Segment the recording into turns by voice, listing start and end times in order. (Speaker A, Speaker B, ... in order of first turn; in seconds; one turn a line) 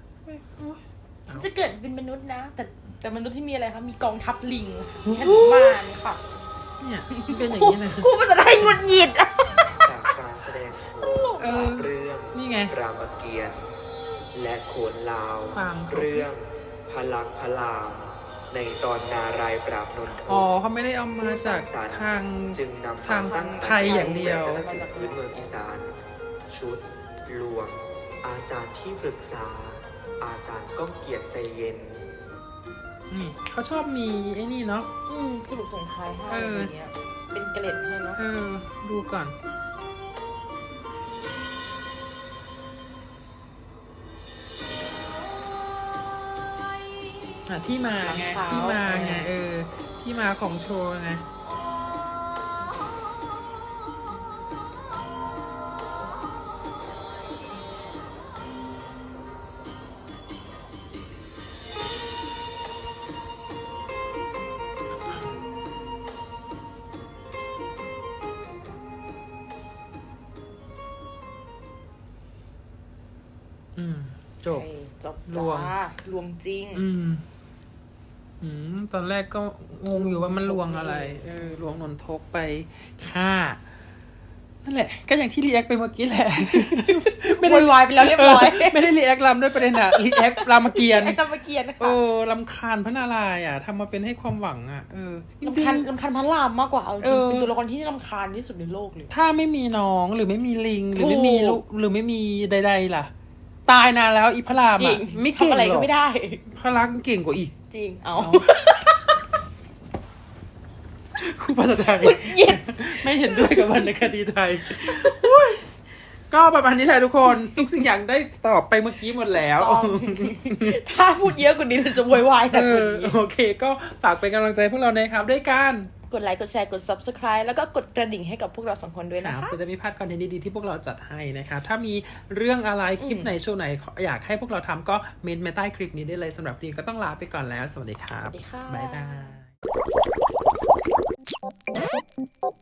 Speaker A: 0.2-1.5
Speaker B: 1.3-6.2
Speaker A: 5.0-5.8
Speaker A: 6.8-8.8
Speaker B: 7.1-9.9
Speaker C: 9.8-13.7
Speaker B: 11.1-11.7
Speaker A: 11.4-12.7
Speaker C: 14.3-20.5
Speaker A: 15.5-16.3
Speaker A: 20.3-24.6
Speaker C: 21.2-32.1
Speaker B: 23.1-25.5
Speaker A: 33.1-34.9
Speaker B: 35.1-38.2
Speaker A: 36.3-36.8
Speaker A: 38.1-39.3
Speaker A: 47.5-51.2
Speaker B: 48.0-49.3
Speaker A: 73.8-74.7
Speaker B: 74.5-76.8
Speaker A: 75.3-75.8
Speaker A: 76.7-77.2
Speaker A: 78.4-83.6
Speaker B: 79.9-81.8
Speaker A: 84.6-91.2
Speaker B: 86.5-88.9
Speaker B: 89.7-92.0
Speaker A: 91.8-95.9
Speaker B: 95.4-99.1
Speaker A: 97.0-97.5
Speaker A: 99.1-103.1
Speaker B: 101.0-101.6
Speaker A: 103.7-105.9
Speaker B: 104.7-106.4
Speaker A: 106.5-107.5
Speaker B: 107.7-109.1
Speaker A: 108.2-108.5
Speaker A: 111.2-115.6
Speaker B: 112.0-113.9
Speaker B: 114.7-115.3
Speaker A: 116.3-120.8
Speaker B: 117.3-117.6
Speaker B: 119.5-123.2
Speaker A: 122.5-125.9
Speaker B: 126.1-129.6
Speaker A: 129.2-139.5
Speaker B: 133.0-133.3
Speaker B: 138.2-139.3